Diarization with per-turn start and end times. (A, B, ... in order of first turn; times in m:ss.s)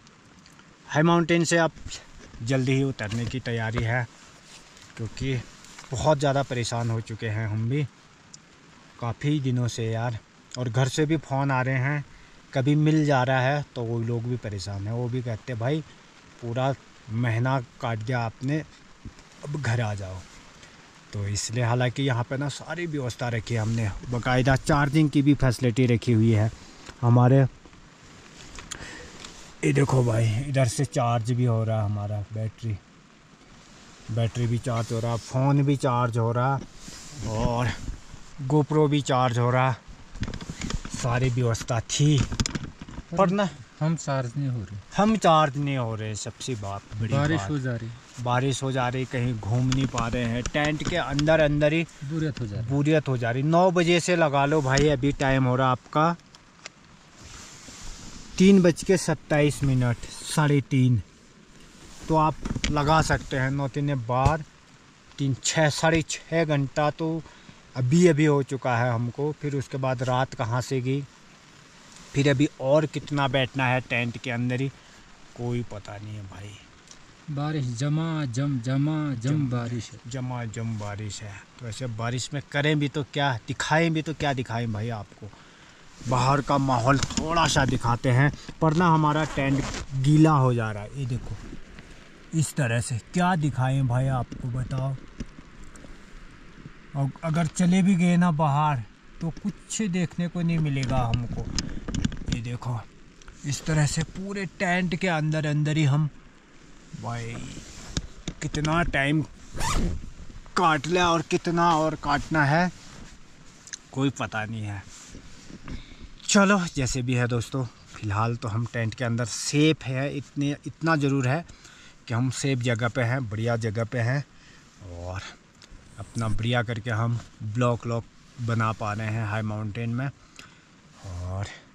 0:00.9-0:04.1 A
0:04.9-0:07.9 A
0:09.0-0:15.8 A
0:16.4-0:18.6 A
0:19.4-0:20.2 A
0:21.1-0:27.5 A
0:29.6-0:32.8 A
0:34.1-0:36.6 A
0:37.2-0:37.7 A
0:38.4-0:39.8 A
0:40.9-0:42.3 A
0:43.1-0:44.8 B
0:43.2-0:43.6 A
0:44.9-0:47.5 A
0:47.1-0:48.0 B
0:48.2-0:51.9 A
0:52.0-0:52.8 B
0:52.6-0:56.2 A
0:58.4-1:01.0 A
1:02.1-1:04.4 A
1:05.2-1:11.1 A
1:12.1-1:14.7 A
1:15.3-1:16.6 A
1:17.3-1:20.0 B
1:19.2-1:25.3 A
1:26.1-1:31.4 A
1:32.3-1:35.0 A
1:36.9-1:41.5 A
1:42.3-1:42.8 A
1:43.4-1:46.1 A
1:46.9-1:47.7 A
1:48.4-1:49.3 A
1:50.5-1:52.7 A
1:53.9-1:54.8 A
1:56.2-2:01.4 A
2:02.1-2:04.2 A
2:04.8-2:05.3 A
2:06.0-2:10.1 A
2:11.0-2:11.5 A